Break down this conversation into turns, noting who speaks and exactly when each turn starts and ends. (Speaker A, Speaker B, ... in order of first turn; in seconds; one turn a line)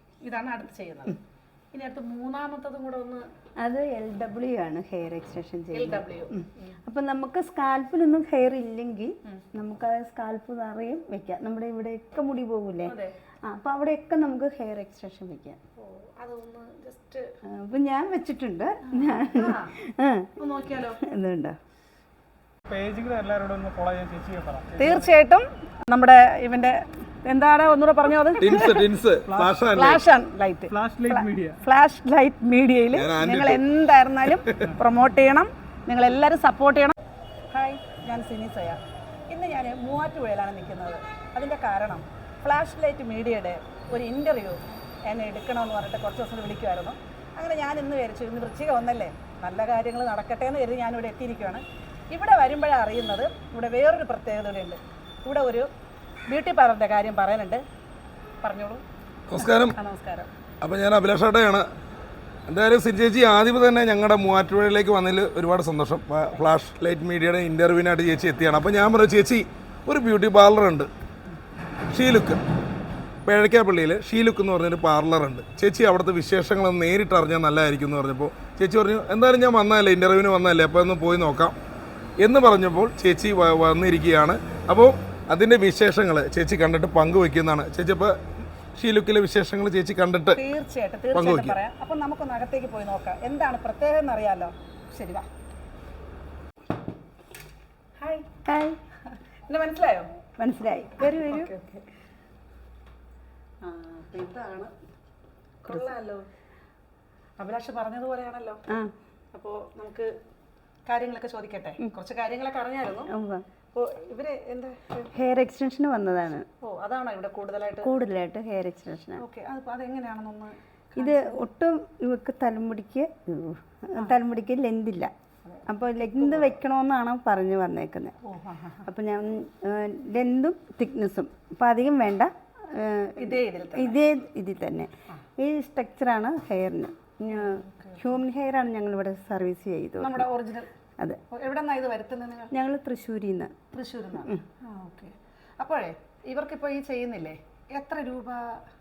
Speaker A: 0.2-1.2
Speaker A: 1.7-3.2
Speaker B: 3.6-12.9
Speaker A: 5.7-6.8
Speaker A: 12.8-13.1
Speaker B: 13.5-15.6
Speaker A: 15.8-17.3
Speaker B: 17.4-20.3
Speaker A: 18.9-19.7
Speaker A: 20.4-21.0
Speaker B: 21.0-21.6
Speaker C: 22.7-25.1
Speaker A: 24.8-28.8
Speaker D: 28.4-30.0
Speaker A: 29.7-36.9
Speaker C: 30.7-31.5
Speaker D: 32.9-33.6
Speaker D: 34.3-34.7
Speaker A: 37.5-55.7
Speaker A: 56.3-57.6
Speaker A: 58.4-58.8
Speaker D: 59.3-59.7
Speaker A: 59.4-60.3
Speaker D: 60.6-61.7
Speaker D: 62.5-70.9
Speaker D: 71.9-72.4
Speaker D: 73.2-81.5
Speaker D: 82.2-88.1
Speaker D: 88.7-90.4
Speaker A: 90.3-95.2
Speaker D: 91.1-91.6
Speaker A: 98.0-98.3
Speaker B: 98.4-98.8
Speaker A: 99.5-100.1
Speaker B: 100.4-101.5
Speaker A: 101.0-101.8
Speaker A: 103.6-104.7
Speaker A: 105.6-106.2
Speaker A: 107.4-108.6
Speaker A: 109.3-110.1
Speaker A: 110.9-113.1
Speaker B: 113.1-113.4
Speaker A: 113.7-115.1
Speaker B: 115.1-116.5
Speaker A: 116.6-117.9
Speaker B: 117.8-119.2
Speaker A: 119.2-121.4
Speaker B: 121.0-125.1
Speaker A: 125.4-126.5
Speaker B: 125.7-128.1
Speaker A: 128.2-128.8
Speaker B: 128.8-140.3
Speaker A: 133.2-134.0
Speaker A: 137.3-138.1
Speaker A: 140.0-140.7
Speaker A: 141.3-142.5
Speaker B: 142.5-143.5
Speaker A: 143.7-148.6